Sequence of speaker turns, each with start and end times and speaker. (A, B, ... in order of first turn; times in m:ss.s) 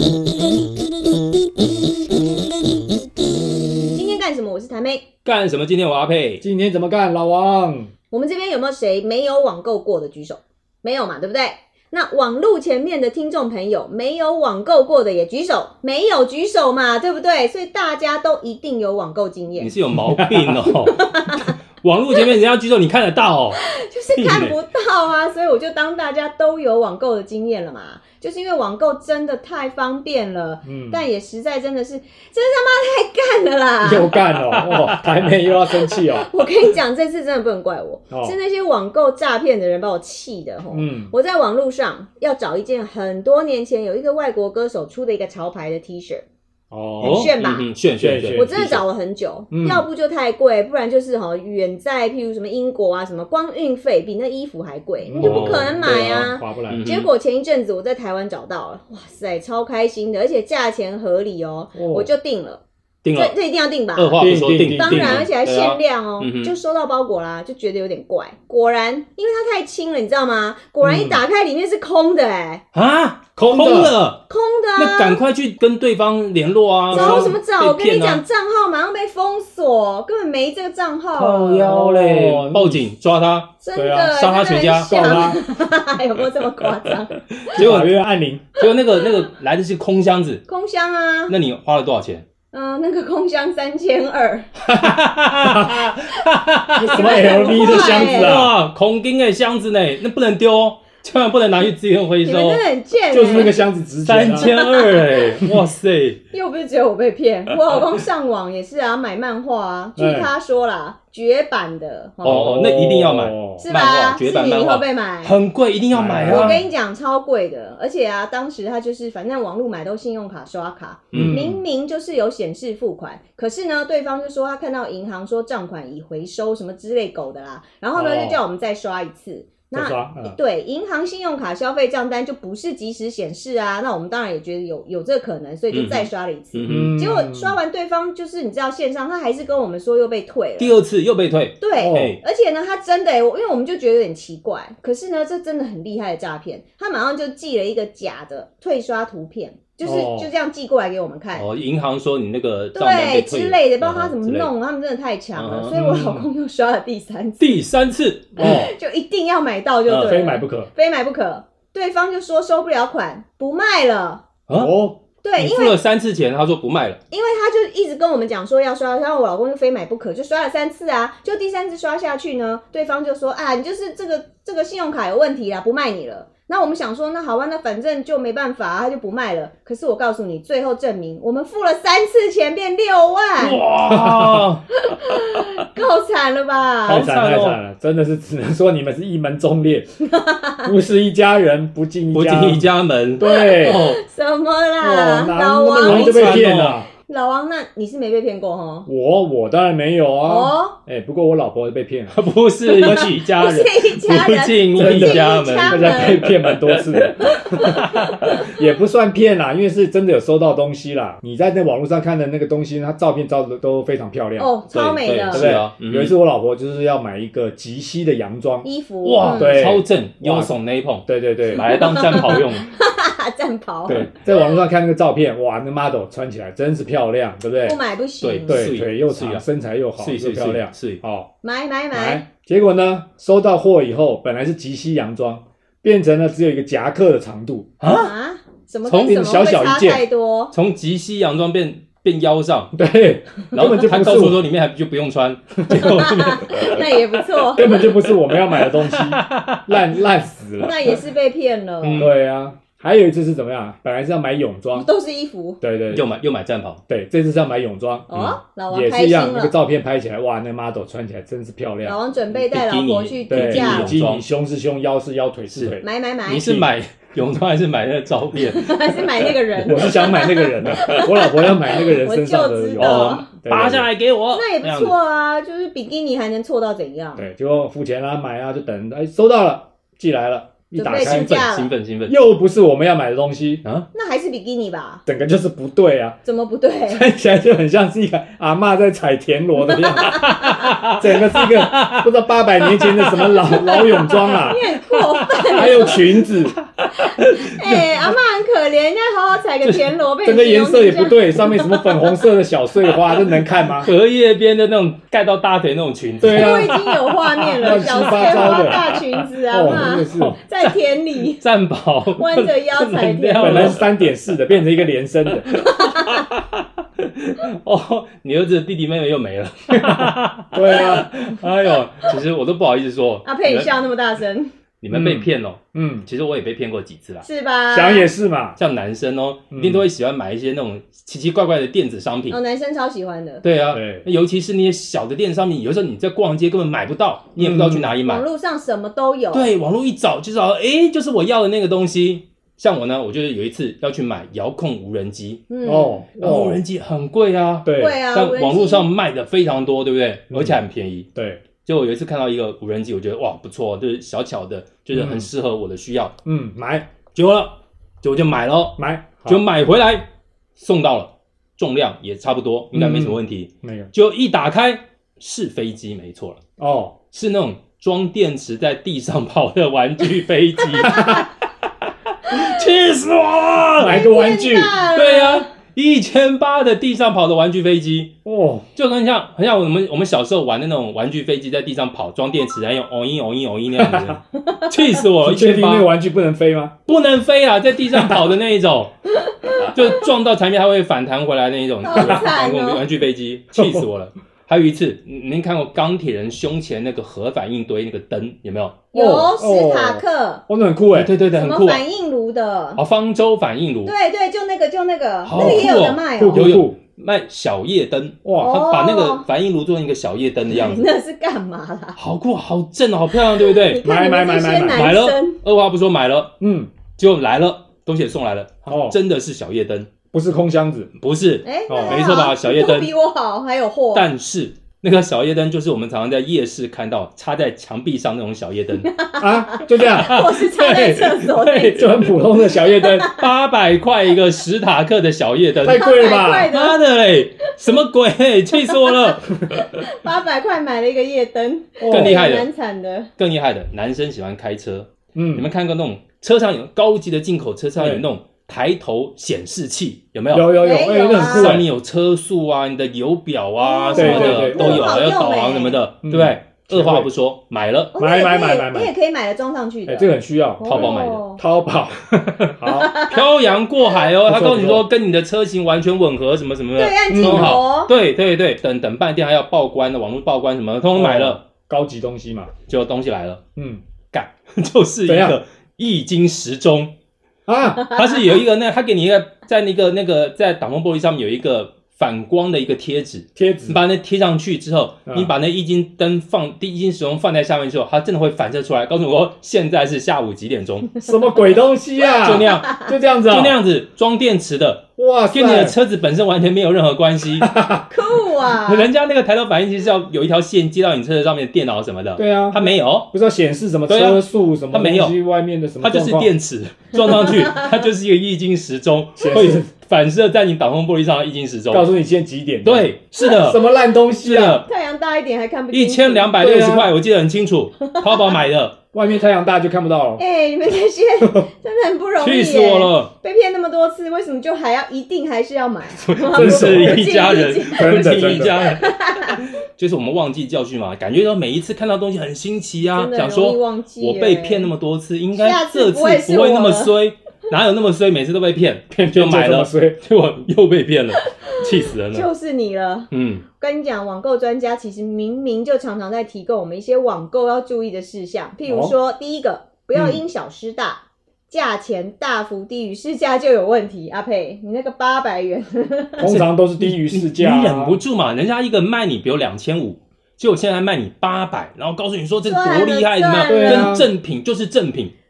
0:03.9-0:05.1 A
0:05.2-0:06.4 B
0:06.4-0:07.9 C
0:08.1-0:19.8 A
0:19.6-0:23.6 B
0:20.0-0:20.7 C
0:20.8-0:21.6 A
0:23.6-0:34.2 A
0:24.1-0:24.6 B
0:30.6-0:31.0 C
0:33.8-0:36.3 C
0:34.4-0:35.0 B
0:35.9-0:46.2 A
0:40.7-0:41.1 C
0:46.7-0:47.3 C
0:47.0-0:47.7 A
0:47.0-0:48.8 B
0:48.0-0:48.7 C
0:48.3-1:12.6 A
0:49.5-0:49.8 C
0:55.0-0:56.8 C
0:55.2-0:57.1 B
1:01.8-1:02.1 C
1:03.0-1:03.3 B
1:03.9-1:06.6 B
1:04.2-1:05.2 C
1:10.8-1:11.2 C
1:12.7-1:14.2 B
1:13.4-1:13.9 C
1:14.3-1:15.2 A
1:14.8-1:18.2 B
1:16.9-1:21.7 A
1:16.9-1:17.4 C
1:21.1-1:23.6 B
1:21.6-1:22.9 C
1:23.6-1:27.1 A
1:23.8-1:24.1 C
1:24.1-1:25.3 B
1:24.8-1:25.4 C
1:27.5-1:27.9 B
1:27.5-1:28.5 C
1:28.6-1:30.4 B
1:29.0-1:29.3 A
1:30.5-1:31.3 A
1:31.3-1:32.2 B
1:32.5-1:34.5 A
1:34.6-1:35.9 C
1:34.8-1:42.6 B
1:36.8-1:38.6 C
1:36.9-1:38.5 A
1:42.2-1:43.6 A
1:43.1-1:44.5 C
1:44.0-1:46.2 B
1:44.4-1:45.4 A
1:46.3-1:52.6 A
1:50.0-1:50.3 C
1:52.2-1:53.7 C
1:52.2-1:56.6 B
1:53.6-1:55.4 A
1:55.9-1:56.6 C
1:56.3-2:20.8 A
2:01.1-2:01.5 B
2:01.1-2:01.6 C
2:07.9-2:08.4 C
2:09.7-2:10.4 C
2:15.7-2:17.0 B
2:16.7-2:17.6 C
2:20.6-2:22.2 B
2:21.6-2:31.5 A
2:21.8-2:22.2 C
2:29.8-2:30.3 C
2:31.3-2:34.5 B
2:32.7-2:37.6 A
2:35.4-2:35.7 B
2:35.7-2:36.3 C
2:37.4-2:38.7 B
2:38.4-2:38.7 C
2:38.4-2:44.2 A
2:39.9-2:40.2 B
2:40.0-2:40.7 C
2:44.5-2:45.0 C
2:45.2-2:45.8 A
2:45.4-2:47.0 B
2:47.1-3:03.6 A
3:03.4-3:04.6 B
3:03.9-3:04.5 C
3:04.8-3:07.1 A
3:06.9-3:07.6 B
3:06.9-3:09.9 C
3:10.1-3:10.7 A
3:10.6-3:12.7 C
3:12.1-3:14.0 B
3:13.2-3:13.8 C
3:13.2-3:16.5 A
3:14.8-3:16.9 C
3:15.8-3:16.8 B
3:17.0-3:18.9 A
3:18.9-3:22.2 C
3:20.3-3:20.8 A
3:22.1-3:28.5 B
3:22.7-3:26.3 A
3:24.8-3:34.5 C
3:27.3-3:28.5 A
3:34.4-3:35.5 A
3:34.7-3:36.2 B
3:35.2-3:38.7 C
3:38.6-3:39.6 A
3:39.0-3:42.7 B
3:39.2-3:40.5 C
3:41.1-3:41.7 C
3:41.5-3:44.4 A
3:43.9-3:47.8 C
3:47.6-3:48.7 A
3:48.2-3:49.4 B
3:48.5-3:51.3 C
3:50.0-3:51.0 B
3:51.4-3:52.2 A
3:51.9-3:57.7 C
3:57.8-3:58.1 B
3:57.9-4:00.5 A
3:58.9-3:59.2 B
3:58.9-4:00.0 C
4:00.5-4:02.7 B
4:02.7-4:04.4 C
4:03.5-4:06.9 B
4:05.8-4:07.8 A
4:07.5-4:11.0 C
4:07.8-4:09.8 B
4:10.6-4:12.1 A
4:11.8-4:12.2 B
4:12.0-4:14.9 C
4:14.7-4:15.6 A
4:15.6-4:16.0 C
4:15.9-4:16.8 B
4:16.9-4:18.1 C
4:18.1-4:19.5 A
4:18.1-4:18.4 B
4:18.7-4:22.0 C
4:21.8-4:24.0 A
4:22.3-4:24.2 B
4:23.3-4:25.8 C
4:25.5-4:29.3 B
4:25.8-4:26.5 A
4:26.4-4:26.7 C
4:28.4-4:33.3 A
4:29.6-4:33.9 C
4:30.7-4:31.4 B
4:32.8-4:35.0 B
4:34.3-4:37.3 A
4:37.2-4:41.5 C
4:40.7-4:41.7 A
4:40.9-4:42.2 B
4:42.1-4:43.6 C
4:43.9-4:45.0 A
4:45.1-4:46.2 C
4:46.2-4:47.1 A
4:46.9-4:54.6 C
4:50.0-4:50.5 A
4:50.1-4:57.8 B
4:54.4-4:56.3 A
4:55.5-4:56.6 C
4:56.9-5:02.3 A
4:59.6-4:59.9 B
5:00.2-5:03.9 C
5:03.2-5:14.0 B
5:06.2-5:06.8 C
5:06.2-5:11.4 A
5:07.6-5:08.8 C
5:09.5-5:10.4 C
5:12.2-5:13.8 A
5:13.4-5:15.6 C
5:15.5-5:23.8 B
5:15.5-5:16.3 A
5:19.7-5:21.3 C
5:23.2-5:24.5 A
5:24.8-5:27.2 B
5:24.9-5:26.1 C
5:27.2-5:28.1 A
5:27.7-5:28.6 C
5:28.6-5:32.4 B
5:29.5-5:29.9 C
5:32.3-5:33.4 A
5:33.4-5:38.3 B
5:33.7-5:34.1 C
5:37.4-5:37.9 C
5:38.0-5:39.5 A
5:39.3-5:45.4 B
5:45.5-5:46.0 A
5:45.6-5:46.6 C
5:46.2-5:51.1 B
5:47.6-5:48.0 C
5:47.8-5:48.9 A
5:50.3-5:50.6 C
5:51.2-5:51.4 C
5:51.6-5:56.1 B
5:54.9-5:55.3 C
5:56.2-5:56.9 C
5:57.2-6:06.4 B
5:58.8-5:59.4 C
6:02.7-6:03.9 C
6:06.6-6:07.0 C
6:07.1-6:11.2 B
6:10.8-6:11.2 A
6:10.8-6:11.3 C
6:12.3-6:14.0 B
6:13.8-6:14.8 C
6:13.8-6:15.5 A
6:14.8-6:18.1 B
6:18.2-6:18.6 C
6:18.8-6:25.9 B
6:23.8-6:24.2 C
6:24.4-6:24.7 A
6:25.2-6:26.7 C
6:26.9-6:28.9 B
6:29.2-6:29.6 A
6:29.6-6:38.9 B
6:31.8-6:32.8 A
6:32.0-6:32.2 C
6:33.6-6:33.8 C
6:38.9-6:40.4 A
6:38.9-6:41.1 C
6:40.9-6:41.8 B
6:41.3-6:42.8 A
6:42.8-6:43.9 B
6:43.8-6:46.6 A
6:45.2-6:50.8 B
6:45.4-6:46.8 C
6:48.2-6:48.6 C
6:48.4-6:49.3 A
6:50.5-6:52.0 A
6:52.0-6:53.8 B
6:53.1-6:55.4 A
6:53.8-6:54.9 C
6:54.7-6:56.3 B
6:56.4-6:56.7 C
6:57.0-6:59.9 B
6:58.7-6:59.0 C
7:00.1-7:00.9 C
7:01.0-7:02.9 B
7:01.4-7:04.1 A
7:01.7-7:02.1 C
7:03.9-7:08.9 B
7:08.8-7:13.3 A
7:09.2-7:13.2 C
7:09.8-7:12.1 B
7:13.1-7:15.9 B
7:15.6-7:16.5 C
7:15.7-7:16.8 A
7:16.5-7:19.7 B
7:17.5-7:17.8 A
7:18.6-7:19.0 A
7:19.7-7:23.1 A
7:21.8-7:22.2 C
7:21.9-7:22.5 B
7:23.2-7:30.6 B
7:25.1-7:25.5 C
7:27.8-7:28.1 C
7:30.3-7:31.7 C
7:30.6-7:31.6 A
7:31.1-7:38.0 B
7:33.6-7:35.8 A
7:33.9-7:35.2 C
7:36.0-7:37.1 C
7:37.9-7:41.4 A
7:38.0-7:38.9 C
7:39.9-7:43.0 C
7:40.6-7:41.2 B
7:42.7-7:43.4 A
7:43.0-7:51.4 B
7:44.2-7:44.9 C
7:46.8-7:47.9 A
7:47.1-7:47.6 C
7:51.0-7:52.5 C
7:52.7-7:53.4 B
7:53.6-7:53.8 C
7:54.1-7:56.9 B
7:55.1-7:55.4 C
7:57.5-7:58.0 C
7:57.9-8:11.0 B
8:03.4-8:03.8 C
8:05.1-8:05.3 C
8:11.0-8:13.6 C
8:12.1-8:17.5 B
8:15.0-8:15.8 C
8:17.4-8:17.9 C
8:17.9-8:18.9 A
8:18.6-8:23.1 B
8:22.2-8:26.3 C
8:23.9-8:25.2 B
8:25.8-8:31.9 B
8:27.0-8:27.7 A
8:29.2-8:29.7 C
8:31.7-8:34.6 C
8:32.6-8:33.6 B
8:34.2-8:34.6 B
8:34.6-8:36.3 A
8:35.7-8:38.8 B
8:36.4-8:36.9 C
8:37.9-8:38.4 A
8:38.9-8:40.2 C
8:40.2-8:49.4 A
8:41.2-8:41.5 C
8:42.2-8:43.1 B
8:46.0-9:02.3 B
8:46.3-8:47.1 C
8:47.7-8:48.6 C
8:52.8-8:54.7 A
8:55.3-8:57.0 A
8:58.9-9:00.0 C
9:02.1-9:16.3 A
9:03.1-9:03.4 B
9:08.7-9:09.0 C
9:16.2-9:18.0 C
9:16.2-9:25.1 B
9:22.4-9:24.0 A
9:23.5-9:24.1 C